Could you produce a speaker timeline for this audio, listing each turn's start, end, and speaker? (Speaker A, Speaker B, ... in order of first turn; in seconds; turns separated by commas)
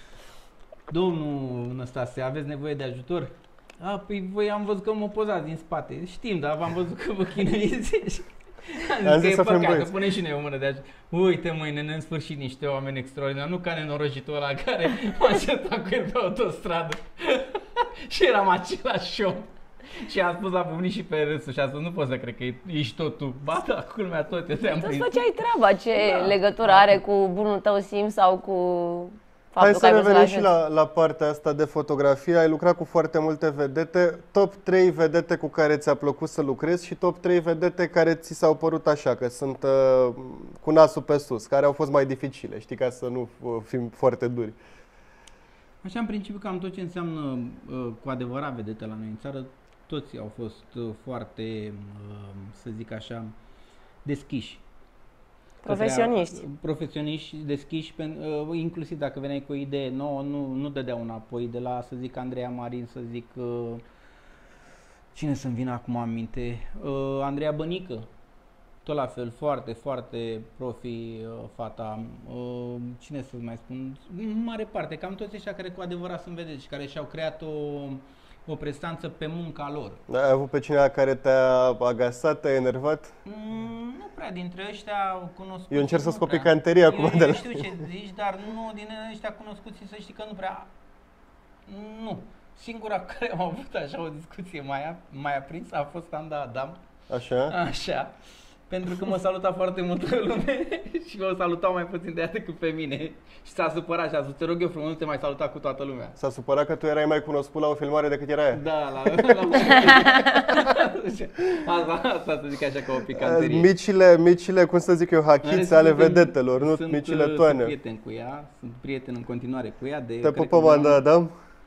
Speaker A: 0.9-25.2, Speaker B: 9.0-10.0, Speaker C: 24.7-30.5, Speaker A: 26.0-27.0, Speaker B: 29.6-44.6, Speaker A: 45.8-53.3, Speaker A: 54.0-54.6, Speaker C: 55.6-56.4, Speaker A: 55.6-63.8, Speaker A: 65.1-68.1, Speaker A: 68.8-80.0, Speaker B: 80.1-83.1, Speaker A: 83.2-90.7, Speaker B: 85.7-87.8, Speaker A: 91.7-96.8, Speaker B: 97.1-97.5, Speaker A: 97.5-98.1, Speaker A: 98.7-106.2, Speaker B: 106.2-109.5, Speaker A: 108.5-113.7, Speaker B: 113.1-117.7, Speaker A: 115.4-121.0, Speaker B: 120.2-121.3